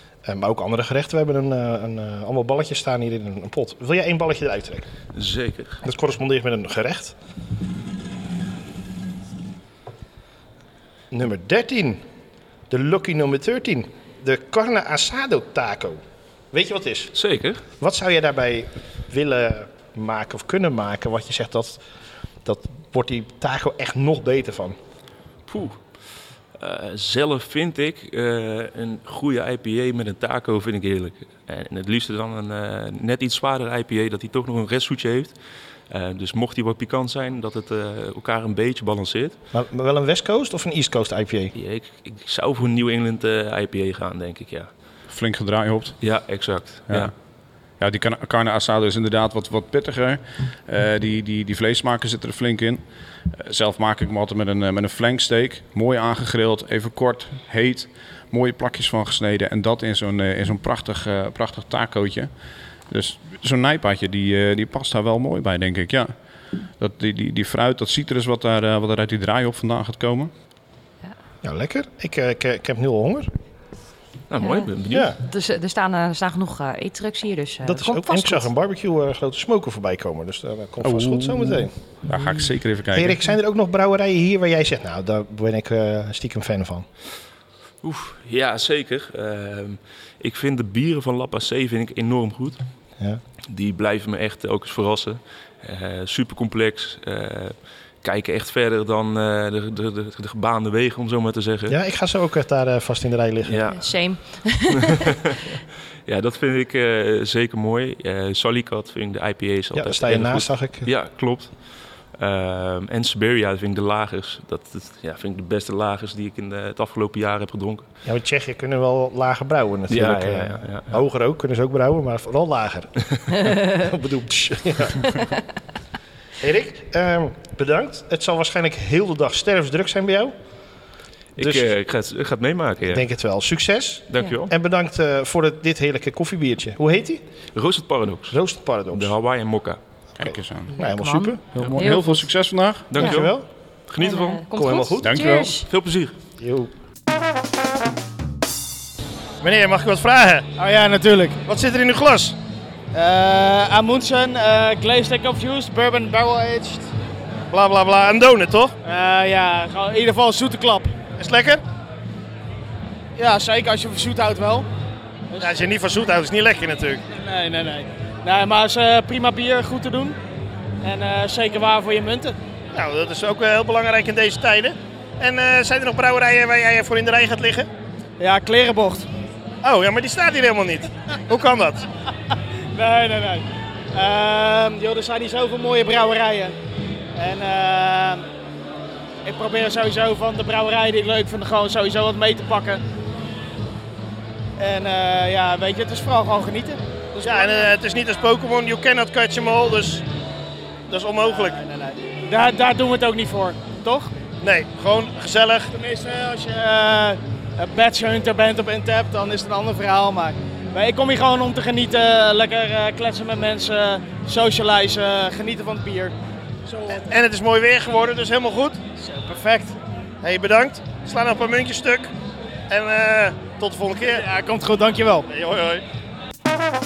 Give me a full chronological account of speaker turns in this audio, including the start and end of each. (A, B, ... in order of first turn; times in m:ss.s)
0:00.2-0:04.9 A
0:05.1-0:05.8 B
0:05.8-0:07.1 A
0:11.1-0:12.0 A
0:12.7-0:16.0 A
0:16.5-0:17.1 A
0:17.1-0:17.6 B
0:17.8-0:21.8 A
0:22.4-0:24.8 A
0:25.5-0:25.9 B
0:26.6-0:35.4 B
0:35.9-0:39.4 B
0:39.5-0:41.5 A
0:41.5-0:44.7 B
0:45.1-0:46.0 C
0:46.0-0:47.1 B
0:46.9-0:47.1 C
0:47.8-0:52.8 C
0:53.3-1:02.3 C
1:02.9-1:06.1 C
1:06.8-1:10.3 C
1:11.4-1:13.3 A
1:14.3-1:15.1 B
1:14.4-1:18.5 D
1:17.6-1:21.7 A
1:20.8-1:23.2 C
1:22.9-1:26.9 A
1:27.8-1:32.6 B
1:33.5-1:41.8 B
1:41.7-1:43.6 A
1:43.4-1:44.4 B
1:43.7-1:45.1 D
1:46.1-1:57.9 B
1:49.7-1:50.9 A
1:58.0-2:05.2 A
1:59.9-2:01.0 B
2:06.4-2:10.3 A
2:11.4-2:13.1 B
2:11.4-2:11.7 A
2:12.9-2:17.2 A
2:14.1-2:14.5 B
2:17.5-2:18.4 B
2:18.3-2:19.1 A
2:18.9-2:19.8 B
2:20.2-2:20.7 C
2:20.2-2:21.4 A
2:20.7-2:22.3 D
2:21.5-2:22.9 C
2:22.9-2:23.4 B
2:23.0-2:23.3 D
2:23.0-2:23.5 A
2:23.9-2:24.4 B
2:24.0-2:25.7 D
2:24.5-2:25.2 A
2:25.0-2:25.5 C
2:25.7-2:26.2 B
2:26.4-2:26.7 A
2:29.4-2:30.5 A
2:30.6-2:31.4 E
2:31.5-2:32.4 A
2:32.9-2:36.9 E
2:37.5-2:38.8 A
2:38.8-2:40.9 E
2:41.2-2:41.6 A
2:43.2-2:44.7 E
2:45.3-2:45.7 E
2:45.4-2:47.0 A
2:47.1-2:50.2 E
2:50.8-2:52.4 E
2:52.7-2:57.7 A
2:58.2-2:59.1 E
2:59.6-3:01.9 A
3:02.7-3:06.6 E
3:07.2-3:08.2 E
3:09.2-3:12.8 E
3:14.6-3:17.7 E
3:17.2-3:20.0 A
3:20.9-3:21.6 A
3:21.3-3:24.1 E
3:24.4-3:25.7 A
3:25.7-3:36.2 E
3:36.7-3:37.2 E
3:36.9-3:38.8 A
3:39.0-3:39.8 E
3:40.2-3:42.1 A
3:42.7-3:44.2 A
3:44.0-3:45.3 E
3:45.3-3:45.8 A